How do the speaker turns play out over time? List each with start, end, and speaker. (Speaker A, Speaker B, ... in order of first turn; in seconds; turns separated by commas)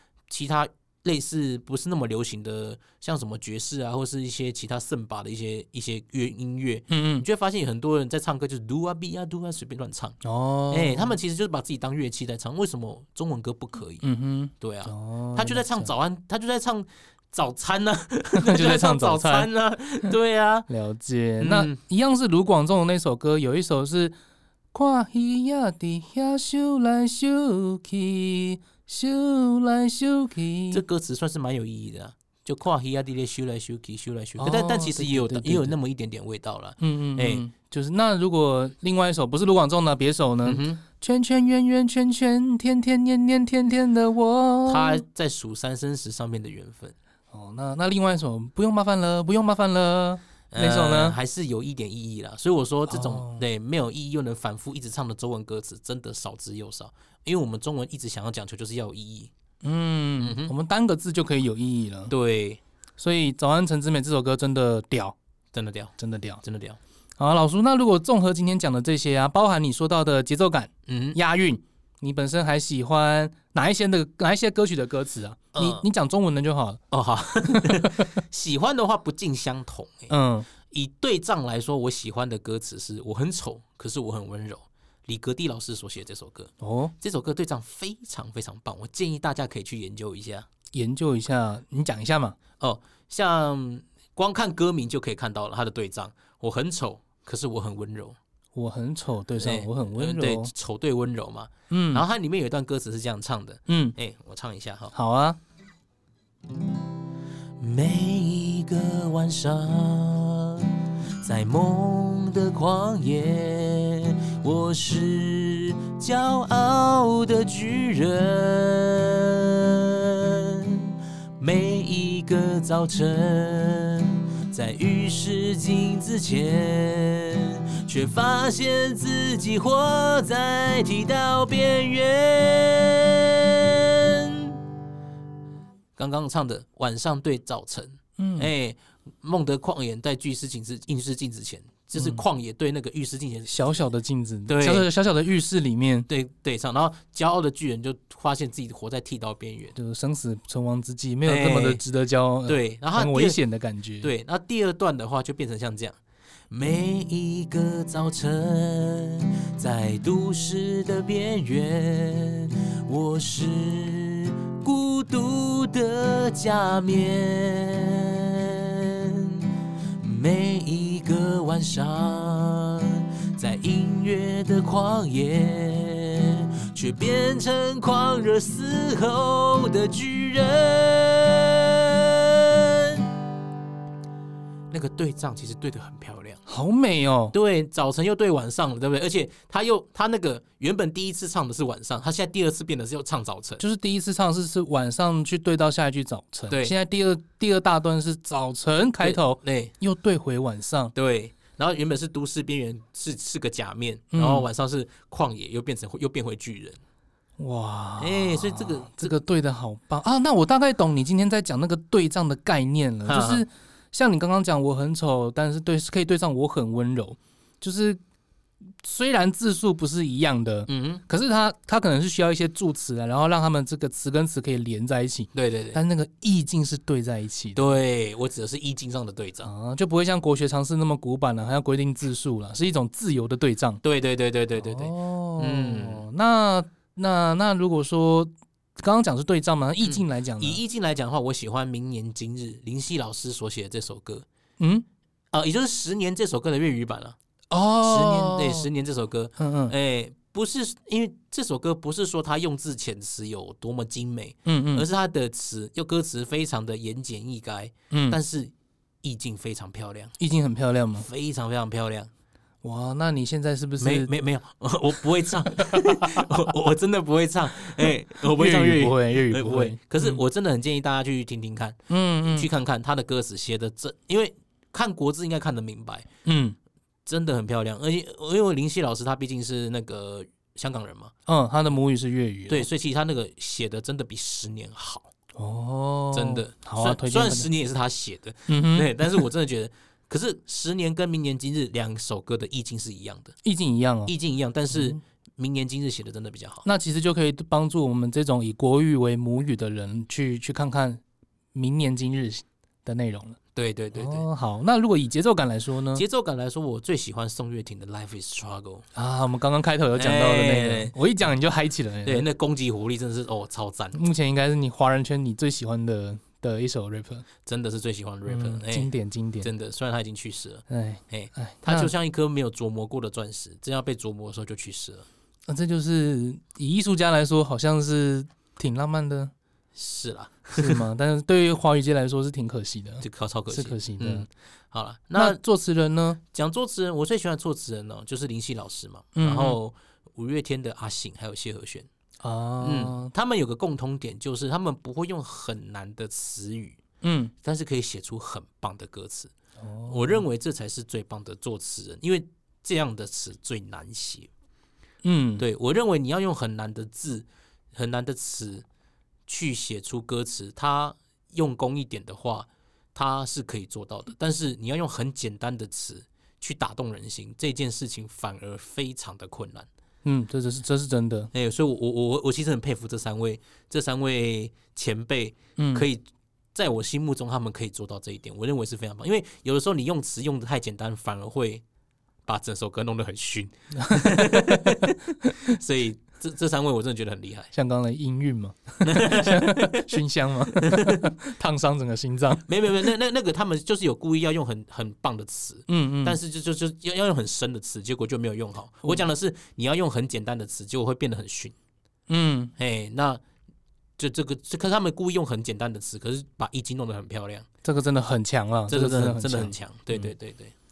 Speaker A: 0.3-10.2, Speaker B: 6.9-7.3, Speaker B: 10.2-11.2, Speaker A: 10.7-14.0, Speaker B: 14.0-15.9, Speaker A: 14.6-20.7, Speaker B: 18.3-19.5, Speaker B: 20.7-24.1, Speaker A: 21.4-21.8, Speaker B: 24.7-30.8, Speaker A: 30.7-37.5, Speaker B: 34.4-35.8, Speaker B: 36.8-45.0, Speaker A: 40.5-40.8, Speaker A: 44.7-46.9, Speaker B: 47.3-51.2, Speaker A: 50.5-59.3, Speaker B: 52.9-53.4, Speaker B: 59.6-62.1, Speaker A: 60.2-60.5, Speaker A: 62.1-62.6, Speaker B: 63.0-65.2, Speaker A: 65.5-66.8, Speaker B: 66.0-66.4, Speaker B: 67.2-76.8, Speaker A: 70.9-71.2, Speaker A: 75.5-75.8, Speaker A: 76.9-80.1, Speaker B: 77.5-78.2, Speaker B: 80.1-80.5, Speaker A: 80.6-90.5, Speaker B: 86.6-86.9, Speaker B: 90.7-92.4, Speaker A: 92.6-98.2, Speaker B: 98.5-100.5, Speaker A: 99.4-104.9, Speaker B: 101.7-102.0, Speaker B: 103.7-104.0, Speaker B: 104.9-105.4, Speaker A: 107.6-134.6, Speaker A: 136.0-143.6, Speaker B: 138.2-138.5, Speaker B: 142.0-142.2, Speaker B: 143.5-146.1, Speaker A: 144.5-144.9, Speaker A: 146.1-149.8, Speaker B: 149.8-154.1, Speaker A: 151.3-151.8, Speaker A: 152.5-153.4, Speaker A: 154.0-156.0, Speaker A: 156.5-183.1, Speaker A: 184.7-186.4, Speaker B: 186.5-187.4, Speaker A: 187.3-193.6, Speaker B: 193.6-200.9, Speaker A: 199.0-199.7, Speaker A: 200.9-206.8, Speaker B: 204.1-204.5, Speaker B: 207.4-218.0, Speaker A: 208.0-209.1, Speaker A: 213.1-213.4, Speaker B: 218.8-227.8, Speaker A: 220.7-221.0, Speaker A: 225.3-225.8, Speaker A: 227.6-229.5, Speaker B: 229.4-233.8, Speaker A: 233.8-236.0, Speaker B: 234.6-240.6, Speaker A: 239.8-244.3, Speaker B: 244.6-244.8, Speaker A: 245.3-247.2, Speaker B: 247.5-248.7, Speaker A: 247.8-260.1, Speaker B: 249.4-249.8, Speaker B: 254.4-254.9, Speaker B: 257.9-258.2, Speaker B: 260.2-261.1, Speaker A: 261.0-262.1, Speaker B: 262.6-264.1, Speaker A: 263.8-276.1, Speaker B: 268.3-270.2, Speaker B: 271.9-272.5, Speaker B: 276.2-276.6, Speaker A: 277.1-281.1, Speaker B: 281.3-282.7, Speaker A: 282.5-285.1, Speaker B: 285.4-287.5, Speaker A: 286.1-293.3, Speaker B: 288.5-289.2, Speaker B: 293.4-294.1, Speaker A: 294.1-296.6, Speaker B: 294.7-295.0, Speaker B: 296.6-301.0, Speaker B: 301.6-303.4, Speaker A: 303.6-304.2, Speaker B: 303.9-306.0, Speaker A: 305.9-308.9, Speaker B: 308.9-312.2, Speaker A: 310.0-311.0, Speaker A: 312.1-314.0, Speaker B: 313.9-317.3, Speaker A: 317.4-318.9, Speaker B: 318.3-319.5, Speaker A: 319.4-325.1, Speaker B: 320.7-321.9, Speaker B: 325.5-329.3, Speaker A: 329.8-330.8, Speaker B: 330.5-334.3, Speaker A: 333.0-335.4, Speaker B: 335.2-336.2, Speaker A: 336.3-341.9, Speaker B: 339.1-339.6, Speaker B: 342.2-343.1, Speaker A: 342.6-346.8, Speaker B: 347.0-347.3, Speaker A: 347.4-349.3, Speaker B: 349.6-350.2, Speaker A: 349.9-354.3, Speaker B: 355.0-355.4, Speaker A: 355.4-358.6, Speaker A: 359.3-369.7, Speaker B: 370.0-371.3, Speaker A: 371.3-376.0, Speaker B: 375.6-375.9, Speaker A: 376.6-381.6, Speaker A: 382.3-387.5, Speaker B: 383.8-384.9, Speaker B: 387.5-392.9, Speaker A: 388.8-390.0, Speaker A: 390.5-391.1, Speaker A: 392.5-401.6, Speaker B: 395.7-396.2, Speaker B: 402.1-402.5, Speaker A: 402.6-403.2, Speaker A: 404.0-407.5, Speaker B: 407.6-410.1, Speaker A: 408.7-410.5